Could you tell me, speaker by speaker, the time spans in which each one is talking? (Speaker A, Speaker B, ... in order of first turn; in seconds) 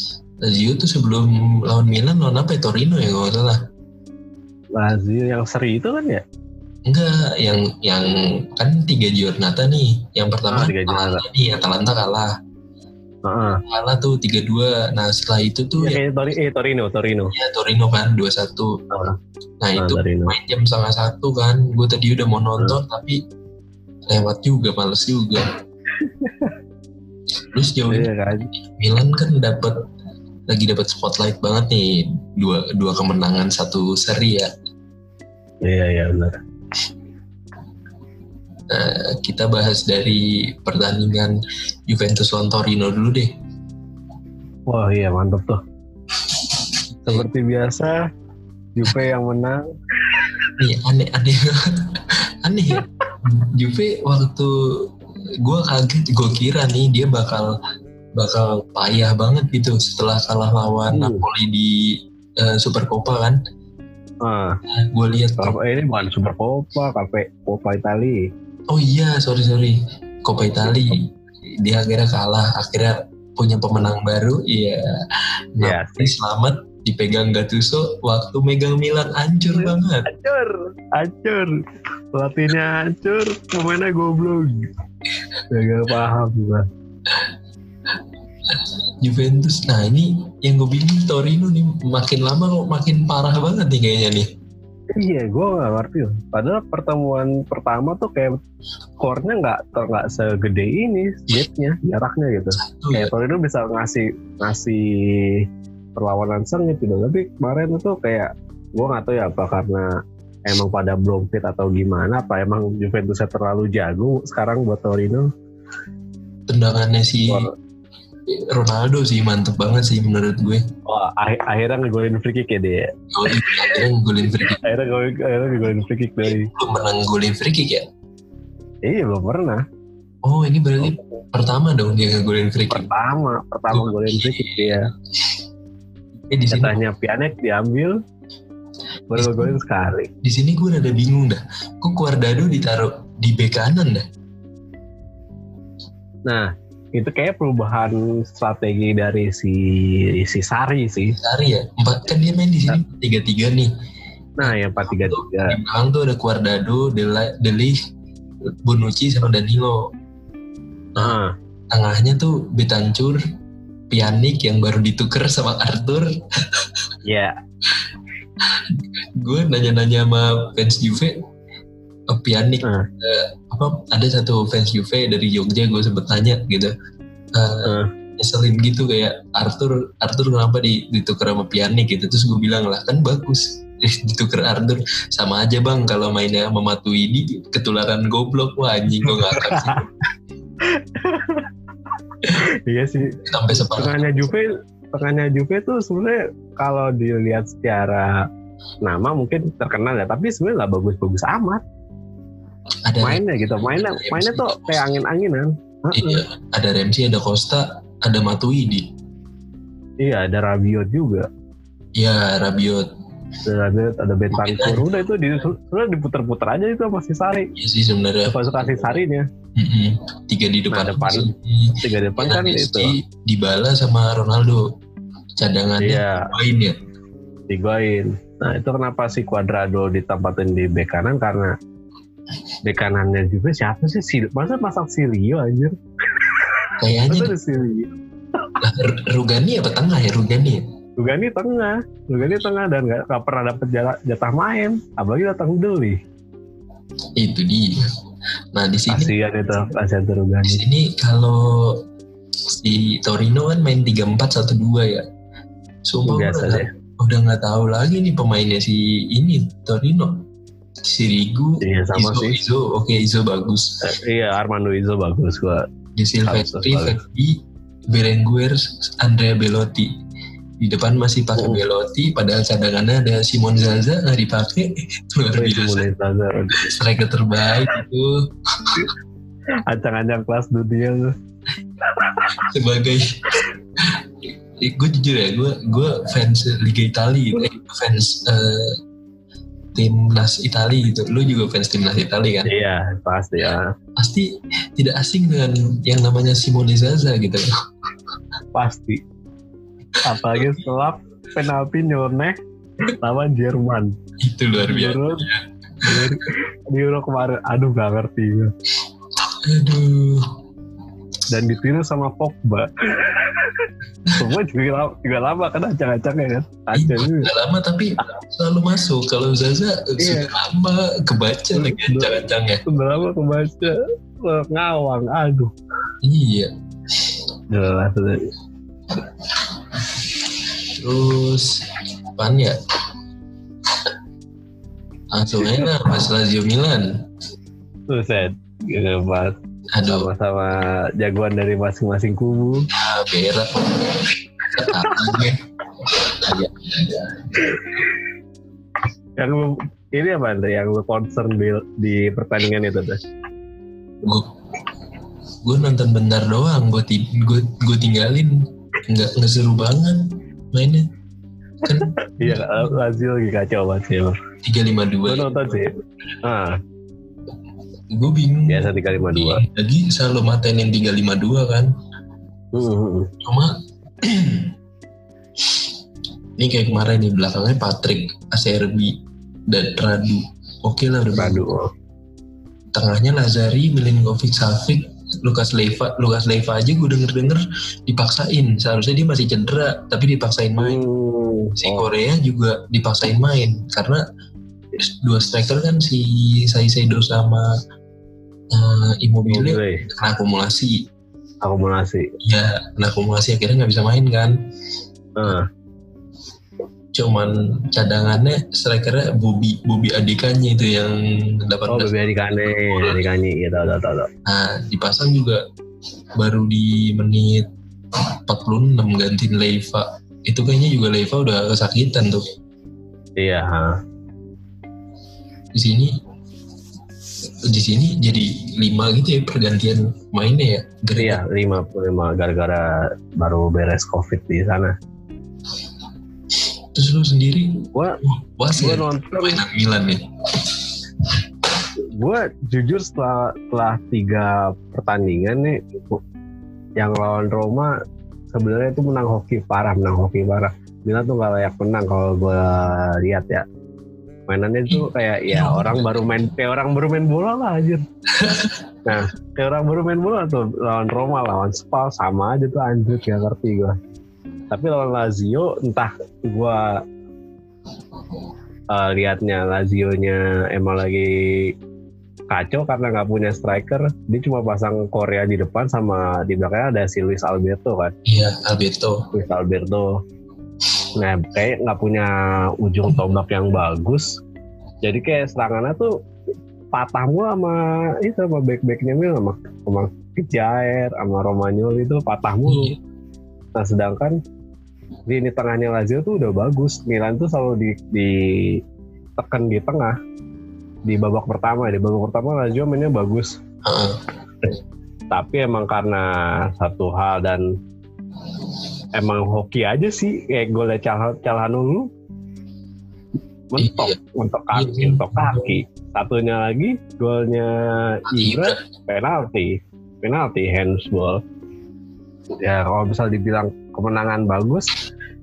Speaker A: 0.4-3.6, 6.9-12.3, 13.6-16.0, 17.3-18.7, 19.6-23.2, 24.1-25.4, 27.5-28.1, 28.8-29.7, 30.5-34.5, 38.7-41.3, 41.9-43.3, 47.0-47.3, 50.6-51.5, 52.4-54.9, 55.4-57.5, 58.2-61.7, 62.4-63.4, 64.7-65.5, 68.7-71.1, 71.6-74.8, 75.5-80.1, 88.5-94.2, 102.6-103.1, 116.5-117.5, 118.3-120.6, 123.1-124.6, 126.2-127.8, 130.2-132.9, 133.7-134.8, 136.3-136.7, 139.1-139.5, 140.2-144.0, 151.1-153.7, 154.4-157.8, 158.7-159.8, 161.7-163.2, 163.9-166.6, 169.2-171.1, 172.1-176.7, 177.3-189.9, 193.2-194.3, 202.8-205.0, 205.9-208.8, 211.9-212.9, 214.3-215.0, 217.5-219.0, 219.6-224.6, 225.4-226.7, 236.8-237.3, 238.6-240.6, 247.2-247.8, 248.5-249.1, 250.5-251.8, 252.6-255.0, 255.8-260.2, 260.9-263.8, 265.9-267.4, 267.9-269.9, 270.6-275.8, 276.6-278.1, 278.6-278.9, 282.4-288.7, 289.7-292.5, 294.0-297.5, 304.2-306.1, 309.4-310.2, 316.7-322.6, 326.0-326.5, 330.8-331.5, 332.2-332.6, 335.1-336.9, 339.7-340.1, 342.8-345.4, 345.9-347.8, 355.4-360.8, 361.6-362.7, 364.4-365.3, 367.9-371.7, 373.2-373.5, 374.0-374.5, 376.4-378.9, 379.5-381.5, 382.7-390.8, 391.6-394.0, 394.8-397.5, 398.5-400.8, 402.2-404.4, 406.9-411.9, 412.7-413.0, 414.2-415.4, 416.2-417.4, 418.3-422.2, 425.5-425.9, 427.5-431.2, 436.7-440.7, 454.7-456.3, 458.2-458.9, 478.1-479.0, 492.4-492.8, 503.6-503.9, 513.6-514.0, 514.5-515.6, 518.1-518.6
Speaker B: 4.8-6.2, 10.5-11.2, 13.2-13.6, 15.8-17.3, 18.9-19.1, 19.8-20.4, 26.0-26.5, 27.9-28.5, 35.6-36.4, 44.7-45.6, 47.1-48.0, 48.7-49.7, 60.9-61.2, 64.2-64.6, 65.4-68.2, 70.7-71.0, 75.6-76.2, 79.5-81.5, 82.1-84.7, 85.5-86.6, 94.9-98.4, 99.0-104.8, 106.0-109.8, 110.5-115.2, 120.9-123.8, 124.6-126.5, 128.8-129.6, 132.7-134.8, 136.5-138.0, 139.1-140.1, 146.3-151.2, 154.4-155.6, 161.0-161.3, 167.0-167.3, 189.1-189.7, 190.7-191.5, 192.3-198.1, 198.8-201.6, 203.0-206.2, 210.0-211.3, 213.4-217.5, 218.2-219.2, 220.7-222.9, 225.8-226.3, 227.5-231.5, 232.7-237.9, 241.0-246.0, 248.9-250.6, 256.0-256.6, 261.6-262.4, 263.8-265.6, 266.2-267.0, 271.4-271.6, 275.4-276.6, 279.7-281.1, 282.0-282.2, 292.4-293.7, 298.5-299.0, 300.0-302.4, 303.0-303.9, 304.6-305.2, 305.8-308.5, 311.3-317.3, 320.0-320.3, 321.5-325.5, 327.5-328.2, 335.4-335.7, 337.9-342.7, 347.5-347.8, 349.2-353.0, 362.2-364.2, 365.1-365.7, 366.2-366.5, 368.5-369.4, 372.5-373.1, 381.2-381.7, 390.6-391.9, 399.3-399.8, 401.4-402.1, 405.2-405.5, 411.7-414.1, 423.2-423.7, 431.0-434.7, 438.5-439.4, 441.9-446.0, 446.8-447.7, 448.3-453.4, 454.3-457.8, 458.9-463.8, 464.5-466.7, 468.7-471.5, 472.3-477.9, 479.1-479.9, 481.0-482.1, 482.6-484.1, 484.8-485.9, 486.7-492.7, 493.6-494.2, 495.1-498.6, 499.2-499.9, 500.9-503.3, 505.1-507.4, 509.0-511.9, 513.5-519.5, 520.0-521.2, 522.4-524.7